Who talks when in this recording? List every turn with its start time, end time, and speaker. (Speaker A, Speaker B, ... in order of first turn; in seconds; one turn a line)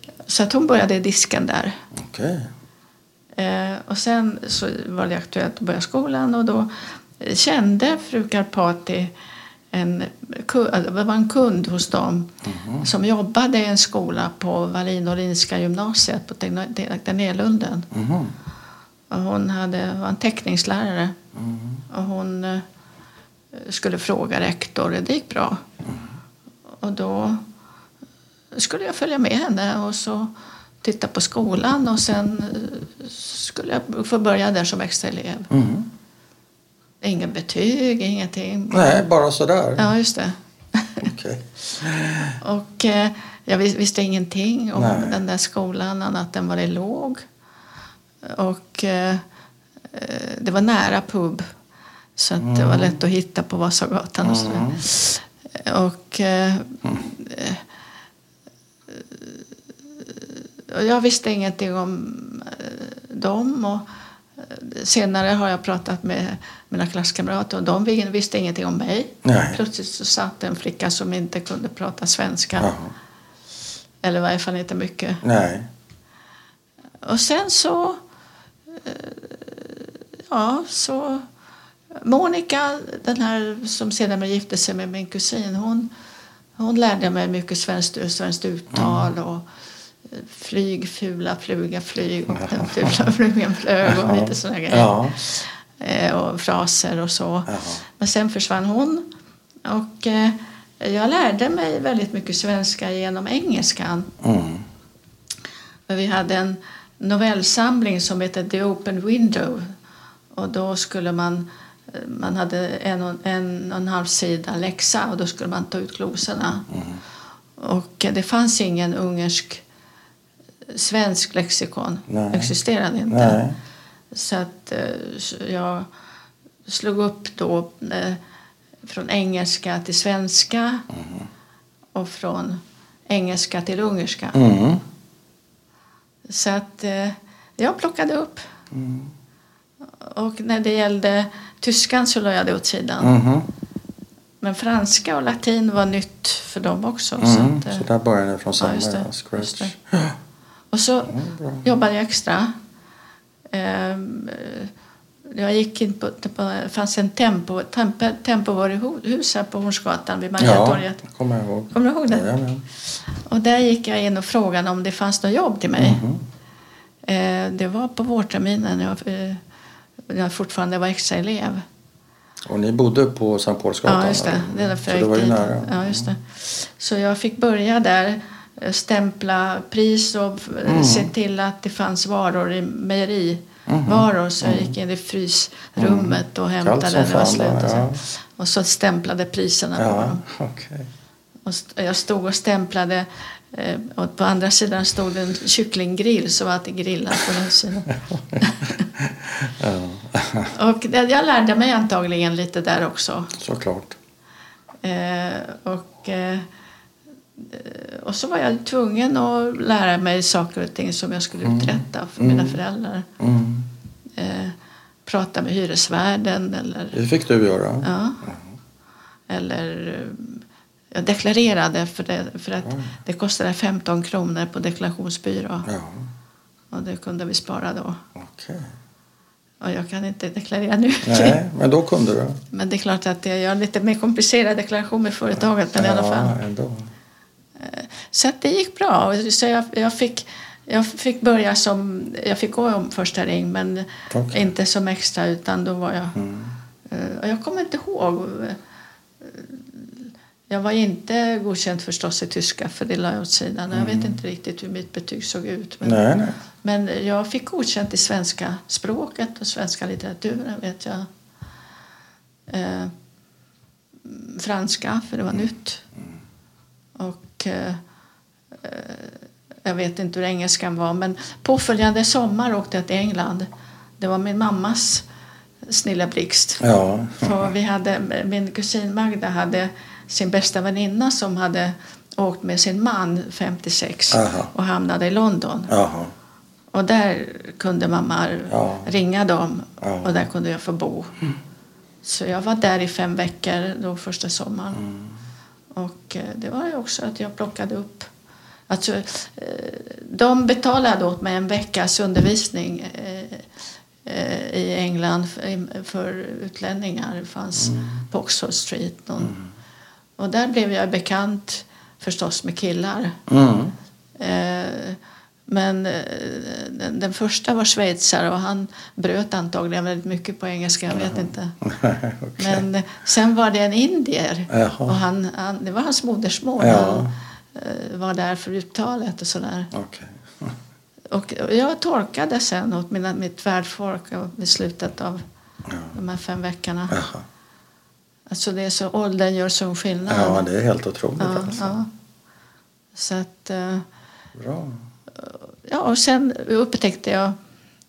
Speaker A: 0.3-1.8
Speaker B: 1.9-2.5
Speaker A: 3.4-9.1
Speaker A: 9.7-17.9
Speaker B: 12.4-12.8
Speaker B: 17.9-18.3
Speaker A: 19.1-21.2
Speaker B: 21.3-21.8
Speaker A: 21.9-22.6
Speaker A: 23.5-25.6
Speaker A: 26.8-27.4
Speaker A: 28.5-35.5
Speaker B: 35.5-35.9
Speaker A: 37.0-39.1
Speaker B: 38.7-39.9
Speaker A: 39.8-41.1
Speaker B: 41.0-42.4
Speaker A: 42.4-47.2
Speaker B: 44.8-45.2
Speaker A: 48.2-49.2
Speaker A: 49.9-51.5
Speaker A: 52.2-57.6
Speaker B: 52.4-53.0
Speaker B: 54.2-54.8
Speaker A: 60.1-63.9
Speaker A: 64.4-72.7
Speaker B: 69.2-69.6
Speaker B: 72.6-72.9
Speaker A: 74.0-75.2
Speaker B: 75.2-75.7
Speaker A: 77.0-78.0
Speaker A: 78.8-81.2
Speaker A: 82.0-85.9
Speaker A: 86.6-89.5
Speaker B: 88.7-89.1
Speaker A: 90.1-99.0
Speaker B: 92.3-93.0
Speaker B: 93.8-95.2
Speaker B: 97.5-97.8
Speaker A: 99.6-104.1
Speaker B: 104.2-104.6
Speaker A: 105.9-109.7
Speaker A: 110.3-116.7
Speaker B: 116.7-117.0
Speaker A: 117.6-119.6
Speaker A: 120.7-123.4
Speaker B: 122.1-122.5
Speaker B: 123.1-123.6
Speaker A: 124.1-125.9
Speaker A: 126.7-128.2
Speaker A: 128.8-130.9
Speaker B: 130.9-131.3
Speaker A: 131.9-134.4
Speaker B: 134.3-134.8
Speaker A: 136.3-138.4
Speaker B: 138.7-139.1
Speaker A: 140.0-143.2
Speaker B: 143.0-143.5
Speaker A: 144.4-147.8
Speaker B: 147.2-150.2
Speaker A: 148.6-149.7
Speaker A: 150.7-152.5
Speaker B: 151.1-151.7
Speaker A: 153.5-154.7
Speaker A: 155.3-161.0
Speaker B: 160.4-162.6
Speaker A: 161.7-162.3
Speaker A: 163.2-166.0
Speaker B: 165.8-166.2
Speaker A: 167.0-169.4
Speaker A: 170.1-171.6
Speaker B: 172.4-176.1
Speaker A: 173.8-190.2
Speaker B: 180.7-181.1
Speaker B: 183.7-184.7
Speaker B: 185.8-188.0
Speaker B: 189.8-190.9
Speaker A: 191.4-198.8
Speaker B: 197.9-200.5
Speaker A: 200.5-203.3
Speaker B: 203.3-203.9
Speaker A: 204.8-206.5
Speaker A: 207.4-213.1
Speaker B: 211.4-212.6
Speaker B: 213.2-213.7
Speaker A: 214.2-214.5
Speaker A: 215.1-217.0
Speaker B: 216.9-218.5
Speaker A: 217.8-218.2
Speaker A: 219.3-220.4
Speaker A: 220.9-225.7
Speaker B: 222.6-222.9
Speaker B: 225.7-226.1
Speaker A: 226.7-228.0
Speaker B: 228.1-228.7
Speaker A: 229.6-231.4
Speaker B: 231.0-232.4
Speaker A: 232.5-236.3
Speaker B: 235.7-236.9
Speaker A: 237.6-246.2
Speaker B: 244.1-244.4
Speaker B: 246.1-246.5
Speaker A: 246.8-248.6
Speaker A: 249.2-256.0
Speaker B: 253.7-254.2
Speaker B: 255.8-256.4
Speaker A: 256.6-261.1
Speaker A: 262.5-262.9
Speaker A: 264.0-265.8
Speaker A: 266.9-267.8
Speaker A: 268.6-273.5
Speaker A: 274.0-275.0
Speaker A: 275.7-276.6
Speaker B: 276.6-277.5
Speaker A: 277.2-285.7
Speaker B: 284.1-284.5
Speaker B: 285.7-286.1
Speaker A: 286.7-291.2
Speaker B: 288.5-288.9
Speaker B: 289.8-290.2
Speaker A: 292.0-294.8
Speaker B: 294.7-295.1
Speaker A: 295.7-298.1
Speaker A: 298.7-303.5
Speaker A: 304.0-309.4
Speaker B: 307.6-307.9
Speaker A: 310.2-313.2
Speaker B: 313.3-313.7
Speaker A: 314.2-321.6
Speaker B: 320.9-322.6
Speaker A: 322.4-329.7
Speaker B: 324.5-325.0
Speaker B: 326.6-327.1
Speaker B: 329.7-330.6
Speaker A: 331.1-335.2
Speaker B: 335.6-335.9
Speaker A: 335.9-337.0
Speaker B: 336.9-337.2
Speaker A: 338.3-340.4
Speaker B: 340.1-341.8
Speaker A: 341.2-341.9
Speaker A: 342.9-343.8
Speaker B: 344.3-344.8
Speaker A: 345.2-347.3